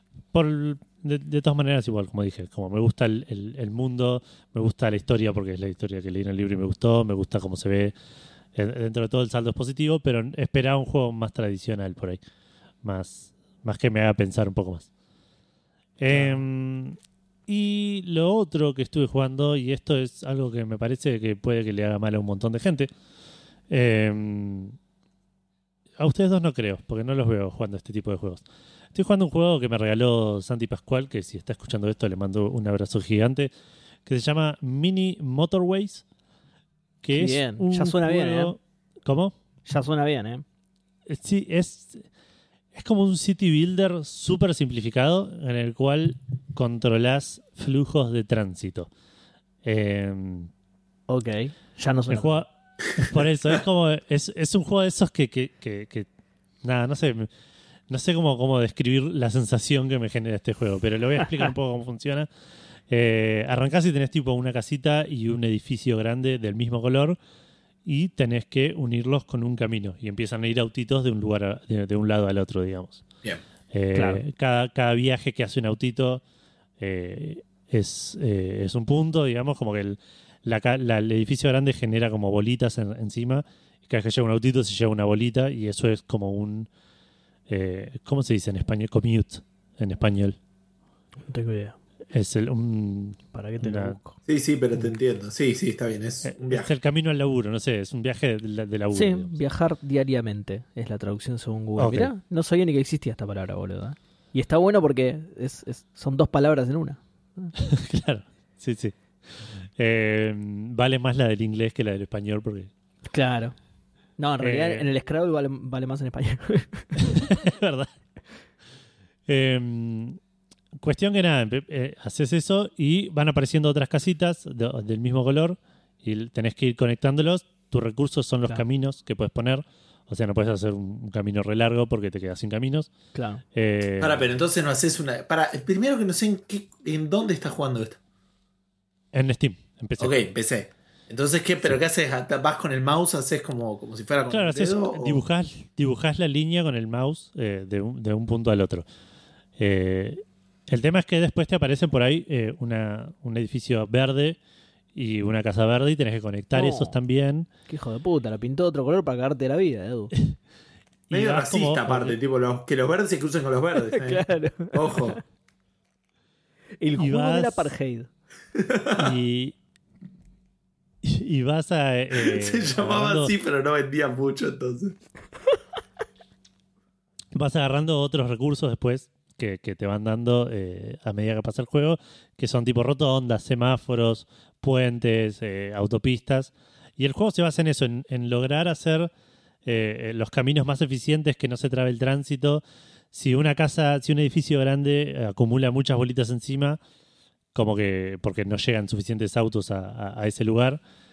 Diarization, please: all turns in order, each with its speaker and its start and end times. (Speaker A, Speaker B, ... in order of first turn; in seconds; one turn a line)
Speaker A: 0.3-7.9
Speaker A: 8.5-12.2
Speaker A: 12.8-14.9
Speaker A: 16.0-22.9
Speaker B: 16.1-16.4
Speaker A: 23.7-24.8
Speaker A: 26.0-28.4
Speaker A: 28.9-33.5
Speaker A: 34.0-36.0
Speaker A: 37.0-39.3
Speaker B: 37.1-38.5
Speaker B: 39.7-40.4
Speaker A: 41.1-42.0
Speaker A: 42.7-48.9
Speaker A: 49.6-50.5
Speaker B: 51.1-52.4
Speaker A: 52.1-56.1
Speaker A: 56.6-57.3
Speaker A: 57.9-62.3
Speaker A: 62.9-67.2
Speaker A: 67.8-73.0
Speaker A: 73.7-76.2
Speaker B: 73.9-74.2
Speaker A: 76.8-86.7
Speaker A: 87.5-90.4
Speaker B: 91.3-91.8
Speaker A: 92.1-94.0
Speaker B: 93.3-94.2
Speaker C: 94.2-96.7
Speaker A: 96.2-99.3
Speaker B: 98.9-107.5
Speaker A: 101.8-102.1
Speaker A: 107.6-112.7
Speaker B: 113.1-113.5
Speaker B: 114.2-117.2
Speaker A: 114.4-114.8
Speaker A: 117.0-117.9
Speaker A: 119.3-120.2
Speaker A: 120.8-132.9
Speaker B: 133.1-133.4
Speaker A: 133.5-134.2
Speaker C: 134.0-138.0
Speaker A: 139.1-140.1
Speaker C: 140.0-145.2
Speaker A: 144.3-148.8
Speaker A: 149.6-154.4
Speaker A: 154.9-157.5
Speaker B: 156.5-157.0
Speaker B: 157.7-160.1
Speaker A: 161.1-162.2
Speaker C: 161.1-165.2
Speaker B: 163.9-165.2
Speaker B: 166.8-168.1
Speaker A: 167.0-167.7
Speaker C: 168.5-169.2
Speaker A: 169.0-169.5
Speaker A: 171.0-173.3
Speaker C: 172.1-175.0
Speaker A: 177.3-189.1
Speaker A: 189.6-196.8
Speaker A: 197.5-200.8